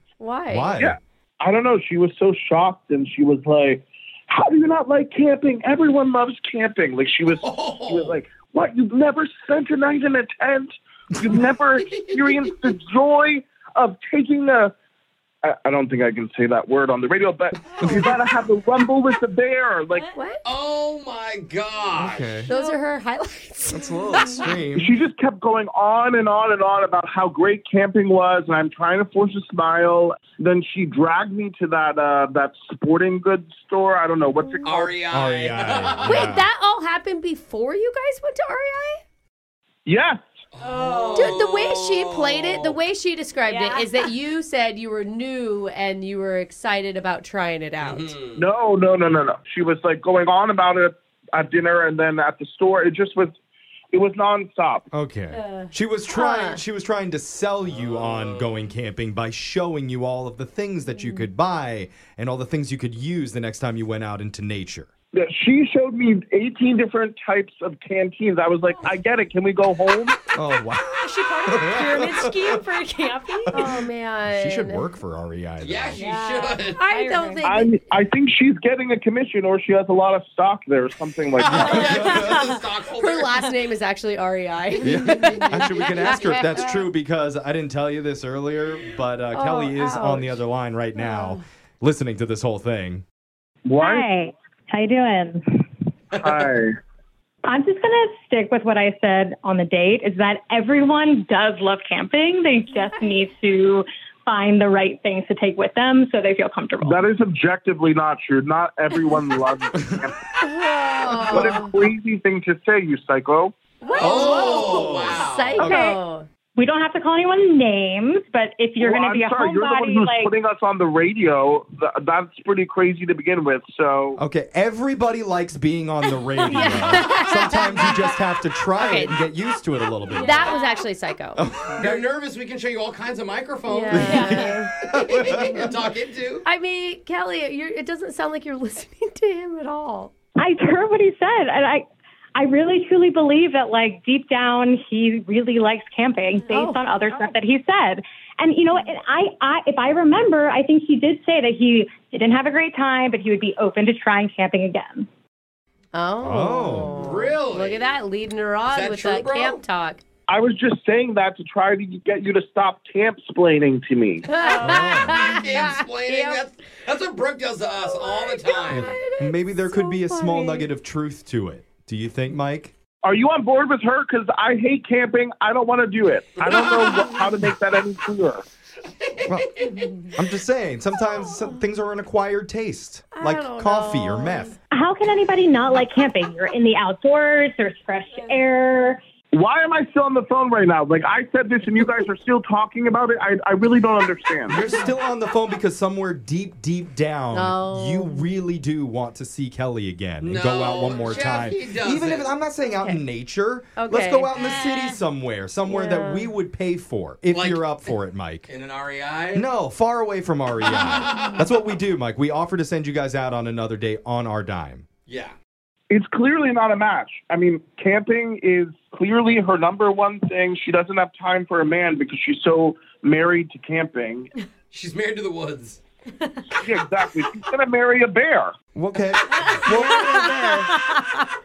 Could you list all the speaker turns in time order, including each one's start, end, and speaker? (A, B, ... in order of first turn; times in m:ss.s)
0:00.2-0:00.7 A
0:00.5-0:01.0 B
0:00.8-0:14.7 C
0:07.4-0:08.2 D
0:11.3-0:12.6 D
0:15.4-0:20.1 C
0:17.8-0:18.1 B
0:20.1-0:20.4 A
0:20.4-0:22.4 D
0:21.9-0:22.5 B
0:22.5-0:24.6 A
0:22.5-0:22.8 E
0:23.7-0:25.0 B
0:24.8-0:35.0 C
0:34.6-0:36.4 D
0:35.1-0:36.4 B
0:36.0-0:39.0 A
0:39.9-0:40.2 C
0:40.5-0:42.8 D
0:40.6-0:41.4 E
0:41.1-0:48.1 A
0:43.4-0:44.1 E
0:47.8-0:48.4 D
0:48.4-0:53.4 C
0:53.9-0:54.9 C
0:54.9-1:04.9 B
0:55.3-0:55.7 E
0:56.1-0:56.6 A
0:57.6-0:58.6 D
1:01.0-1:01.3 E
1:05.1-1:10.2 C
1:10.3-1:12.6 B
1:11.0-1:13.7 E
1:13.5-1:16.0 B
1:13.5-1:14.9 A
1:15.6-1:16.8 D
1:15.9-1:17.5 E
1:16.7-1:17.8 A
1:17.4-1:22.2 C
1:21.3-1:23.3 D
1:21.4-1:22.4 B
1:22.9-1:26.8 A
1:24.8-1:33.0 B
1:26.1-1:26.6 E
1:29.3-1:30.4 A
1:31.1-1:31.3 E
1:33.6-1:34.1 C
1:33.8-1:35.7 F
1:36.2-1:36.8 C
1:37.4-1:47.0 F
1:42.9-1:43.2 A
1:46.9-1:50.2 C
1:50.4-1:51.7 A
1:51.3-1:53.6 C
1:53.8-1:56.3 A
1:53.9-1:55.7 D
1:54.0-1:56.0 B
1:55.6-1:56.0 F
1:56.6-2:00.3 F
1:58.8-2:04.2 C
2:04.2-2:10.6 B
2:06.5-2:08.1 A
2:06.6-2:07.0 E
2:08.8-2:09.2 A
2:10.1-2:10.8 E
2:10.1-2:11.4 A
2:11.4-2:12.1 B
2:11.8-2:14.4 D
2:13.7-2:14.7 A
2:13.9-2:15.7 B
2:13.9-2:15.4 E
2:15.1-2:16.4 D
2:16.4-2:20.1 A
2:20.4-2:21.8 F
2:22.4-2:35.1 F
2:26.5-2:26.8 A
2:35.9-2:40.0 A
2:36.2-2:37.0 B
2:36.9-2:37.9 D
2:38.7-2:39.6 D
2:40.3-2:44.3 C
2:44.3-2:46.4 A
2:44.4-2:45.1 E
2:44.6-2:45.1 B
2:45.0-2:48.9 D
2:47.9-2:50.7 A
2:48.7-2:52.7 B
2:53.0-2:58.4 C
2:56.4-2:57.3 D
2:59.0-3:00.1 D
2:59.2-2:59.5 B
3:00.1-3:04.6 B
3:03.1-3:04.6 A
3:04.7-3:09.0 F
3:08.1-3:08.4 E
3:09.3-3:14.6 C
3:14.5-3:28.5 B
3:17.3-3:18.3 A
3:20.2-3:22.3 D
3:23.8-3:24.3 A
3:24.5-3:24.8 E
3:25.7-3:26.3 A
3:27.3-3:29.4 D
3:29.3-3:34.9 B
3:30.6-3:31.4 D
3:35.1-3:35.3 D
3:35.9-3:44.3 C
3:44.7-3:45.8 D
3:46.6-3:48.5 C
3:48.7-3:50.7 B
3:49.6-3:51.2 A